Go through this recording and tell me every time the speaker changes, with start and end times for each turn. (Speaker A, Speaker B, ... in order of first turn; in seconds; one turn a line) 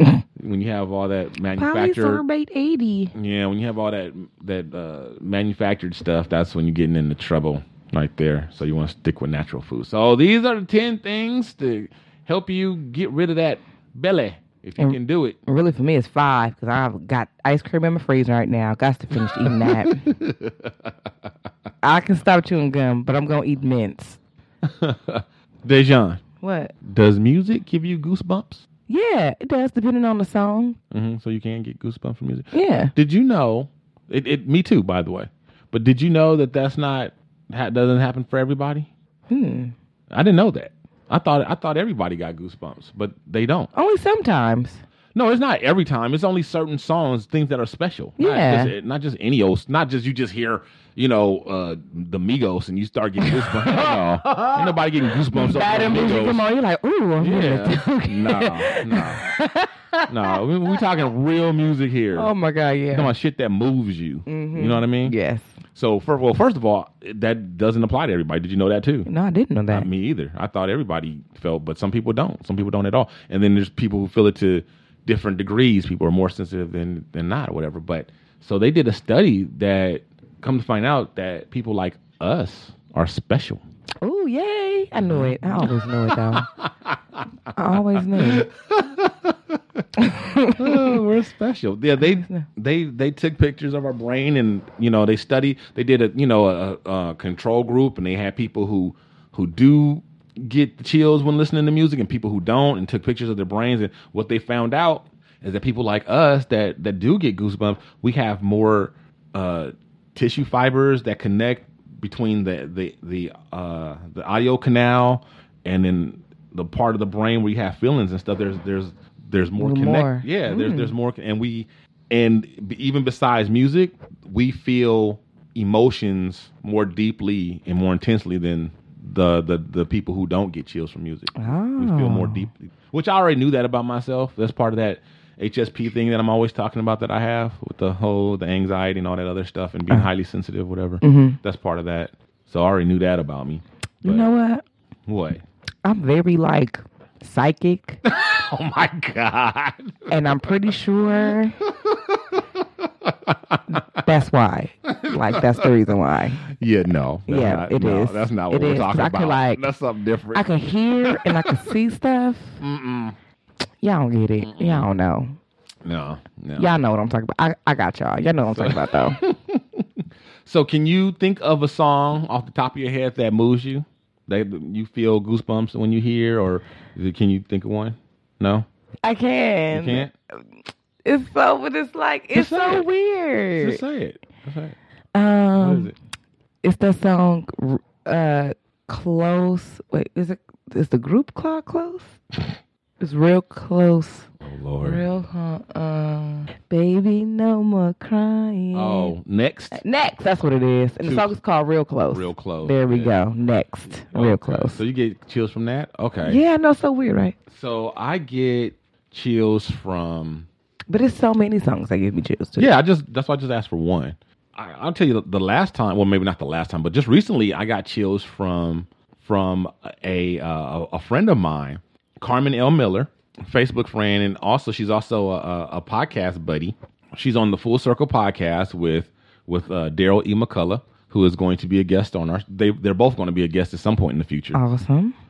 Speaker A: 0.4-2.2
Speaker B: 1.6-3.1
Speaker A: 3.1-15.4
Speaker B: 14.8-20.1
Speaker A: 19.4-20.9
Speaker B: 21.8-24.2
Speaker A: 24.6-26.2
Speaker B: 26.4-26.7
Speaker A: 26.8-28.6
Speaker B: 28.9-30.8
Speaker A: 30.9-38.9
Speaker B: 32.5-32.9
Speaker B: 39.3-39.7
Speaker A: 40.1-43.7
Speaker B: 43.7-44.8
Speaker A: 45.1-56.4
Speaker B: 48.2-48.7
Speaker B: 53.3-54.8
Speaker B: 55.3-60.4
Speaker A: 57.2-59.2
Speaker A: 60.1-62.3
Speaker B: 62.1-63.1
Speaker A: 62.9-65.2
Speaker B: 64.3-65.5
Speaker A: 65.7-69.1
Speaker B: 69.1-69.9
Speaker A: 69.7-83.6
Speaker B: 84.0-86.5
Speaker A: 85.0-87.2
Speaker B: 87.6-88.5
Speaker A: 87.7-89.8
Speaker B: 90.0-90.9
Speaker A: 90.6-144.3
Speaker B: 92.0-92.5
Speaker B: 119.6-120.9
Speaker B: 131.4-132.5
Speaker B: 141.0-141.4
Speaker B: 144.0-144.6
Speaker A: 145.1-145.4
Speaker B: 145.8-148.0
Speaker A: 148.1-150.7
Speaker B: 150.1-151.6
Speaker A: 151.3-153.8
Speaker B: 153.7-156.4
Speaker A: 154.9-155.7
Speaker A: 156.4-160.5
Speaker B: 157.3-159.6
Speaker B: 160.3-162.6
Speaker A: 161.0-161.7
Speaker A: 162.6-163.2
Speaker B: 163.8-165.4
Speaker A: 164.4-164.9
Speaker A: 165.8-166.7
Speaker B: 166.6-169.2
Speaker A: 168.5-178.7
Speaker B: 179.0-180.1
Speaker A: 179.7-180.1
Speaker B: 181.0-183.8
Speaker A: 182.3-182.9
Speaker A: 183.6-184.8
Speaker B: 185.2-185.9
Speaker A: 185.6-185.9
Speaker B: 186.6-192.2
Speaker B: 193.0-194.3
Speaker A: 194.4-195.0
Speaker B: 194.8-199.1
Speaker A: 198.7-199.8
Speaker B: 199.7-204.8
Speaker A: 201.0-201.3
Speaker A: 202.1-203.2
Speaker A: 204.1-206.4
Speaker B: 206.2-207.4
Speaker A: 207.5-210.5
Speaker B: 210.9-212.7
Speaker A: 212.6-234.6
Speaker B: 234.5-235.2